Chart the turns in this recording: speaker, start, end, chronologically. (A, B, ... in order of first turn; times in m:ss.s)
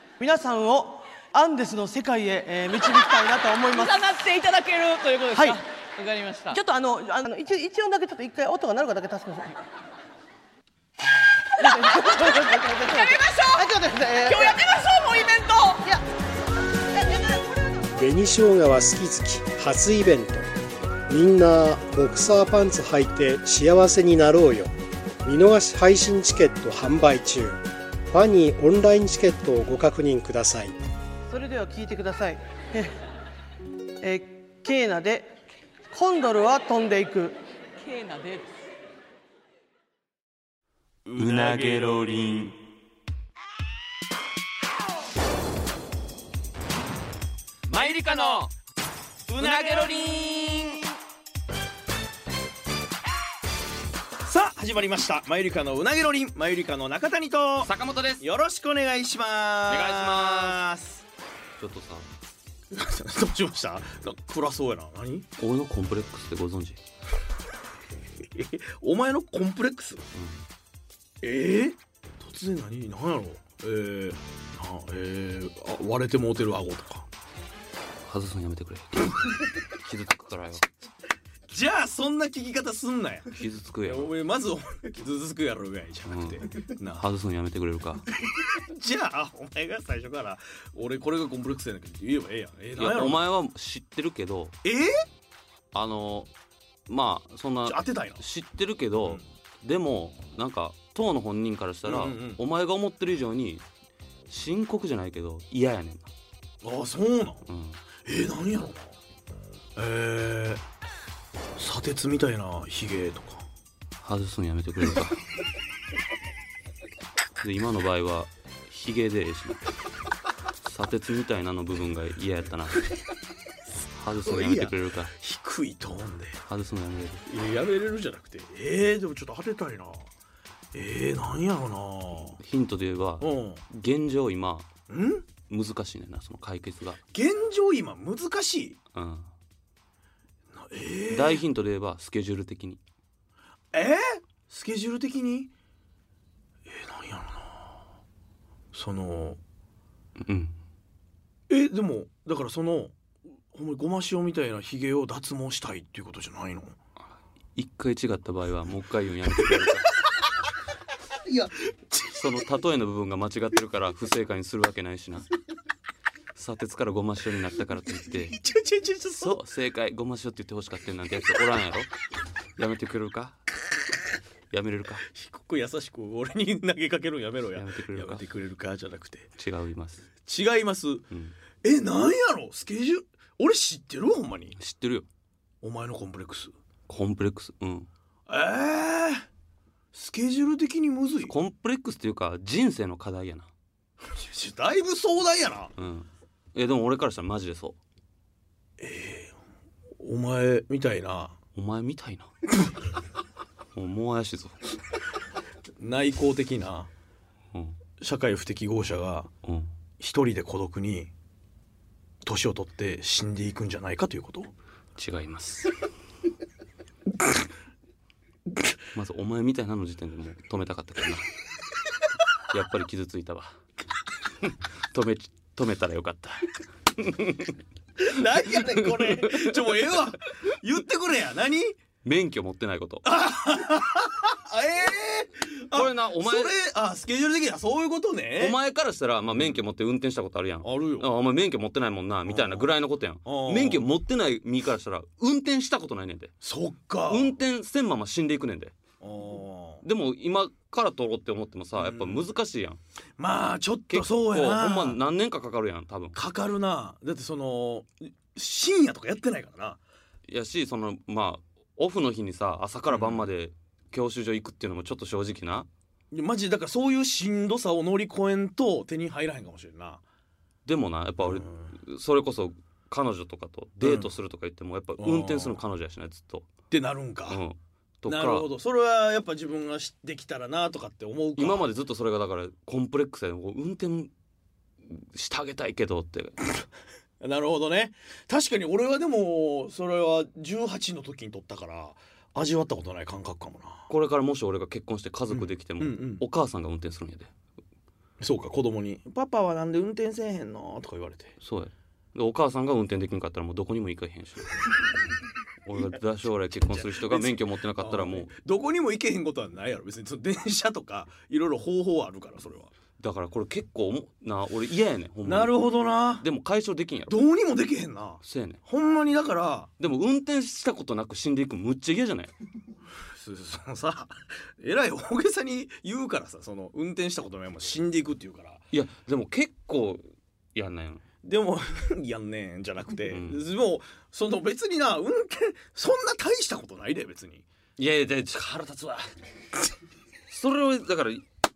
0:00.2-0:04.2 A
0:03.8-0:06.6 B
0:05.3-0:05.6 A
0:06.5-0:09.6 A
0:11.6-0:14.7 A
0:13.0-0:13.6 B
0:14.3-0:15.8 B
0:15.7-0:16.0 A
0:17.9-0:20.5 C
0:21.1-0:24.7 C
0:25.2-0:30.8 C
0:31.3-0:33.0 A
0:34.0-0:35.3 A
0:35.9-0:37.4 A
0:37.8-0:38.5 B
0:41.1-0:42.6 D
0:41.4-0:41.8 E
0:47.7-0:48.5 D
0:47.9-0:48.4 E
0:49.3-0:50.1 E
0:49.4-0:50.8 D
0:54.2-1:01.0 E
0:57.6-0:58.2 D
0:59.7-1:00.6 D
1:01.6-1:02.1 D
1:02.7-1:05.3 E
1:05.4-1:06.8 D
1:08.3-1:10.0 E
1:10.1-1:10.4 D
1:11.2-1:17.1 E
1:18.1-1:20.6 D
1:21.5-1:23.3 E
1:23.4-1:24.1 D
1:23.9-1:27.0 E
1:26.1-1:26.4 D
1:27.0-1:28.1 D
1:28.4-1:33.3 E
1:32.8-1:34.6 D
1:34.6-1:35.0 E
1:35.7-1:36.3 D
1:36.9-1:43.6 D
1:37.7-1:38.2 E
1:41.8-1:42.4 E
1:44.3-1:46.1 D
1:46.6-1:47.4 E
1:47.5-1:47.8 D
1:48.0-1:49.0 E
1:49.8-1:50.6 E
1:51.6-1:53.5 E
1:54.0-1:55.2 D
1:57.4-1:59.6 D
2:00.7-2:02.9 D
2:04.0-2:05.1 D
2:04.3-2:06.4 E
2:06.5-2:07.3 D
2:07.3-2:10.1 E
2:10.7-2:12.4 E
2:12.4-2:14.7 D
2:13.2-2:13.6 E
2:14.9-2:15.3 E
2:15.5-2:17.0 D
2:17.1-2:18.8 E
2:18.9-2:19.3 D
2:20.5-2:21.4 E
2:21.1-2:22.8 D
2:23.7-2:25.5 E
2:26.7-2:27.8 E
2:28.7-2:29.4 E
2:30.2-2:30.5 D
2:31.5-2:33.0 E
2:33.5-2:36.8 E
2:37.6-2:39.9 D
2:41.2-2:42.0 E
2:42.1-2:45.3 D
2:46.4-2:48.4 D
2:48.3-2:49.4 E
2:49.2-2:51.9 D
2:52.6-2:53.4 D
2:54.5-2:55.1 D
2:55.1-2:59.3 E
2:57.5-2:58.2 D
2:59.4-3:00.1 D
3:00.2-3:01.0 E
3:01.6-3:04.6 E
3:04.6-3:05.1 D
3:05.6-3:06.5 E
3:06.9-3:07.9 D
3:08.3-3:09.3 E
3:09.9-3:11.3 E
3:11.3-3:13.5 D
3:14.1-3:15.7 E
3:15.8-3:17.8 D
3:18.8-3:19.4 E
3:20.0-3:21.4 E
3:21.6-3:22.3 D
3:23.8-3:24.6 D
3:25.8-3:26.9 E
3:28.0-3:29.3 E
3:29.4-3:29.7 D
3:30.0-3:31.1 E
3:32.2-3:34.5 E
3:35.0-3:35.7 D
3:39.0-3:41.3 D
3:42.5-3:43.5 D
3:44.4-3:47.6 D
3:48.0-3:51.8 E
3:48.5-3:49.8 D
3:52.0-3:53.0 D
3:53.0-3:58.6 E
3:55.7-3:56.5 D
3:58.4-4:06.3 D
4:00.6-4:01.1 E
4:02.3-4:02.7 E
4:03.2-4:03.8 E
4:06.4-4:07.3 E
4:07.1-4:08.7 D
4:09.0-4:09.8 E
4:09.8-4:12.8 D
4:11.8-4:12.2 E
4:13.2-4:15.0 E
4:13.9-4:16.2 D
4:16.1-4:19.8 E
4:20.3-4:25.7 D
4:22.9-4:23.2 E
4:26.1-4:30.0 E
4:30.6-4:36.5 D
4:31.2-4:31.7 E
4:33.8-4:34.1 E
4:35.0-4:35.6 E
4:36.7-4:37.4 E
4:37.3-4:38.5 D
4:38.1-4:41.6 E
4:41.4-4:44.1 D
4:44.9-4:46.4 D
4:47.2-4:53.8 E
4:53.9-4:57.3 D
4:55.3-4:56.2 E
4:58.2-5:01.4 E
5:01.4-5:04.6 D
5:05.6-5:08.3 D
5:06.7-5:12.7 E
5:13.0-5:17.2 D
5:15.2-5:16.2 E
5:17.1-5:19.7 E
5:18.2-5:18.6 D
5:19.8-5:22.3 D
5:23.1-5:28.6 E
5:28.7-5:30.0 D
5:30.6-5:31.0 D
5:31.2-5:37.4 E
5:33.1-5:33.4 D
5:37.8-5:39.1 D
5:40.3-5:41.2 D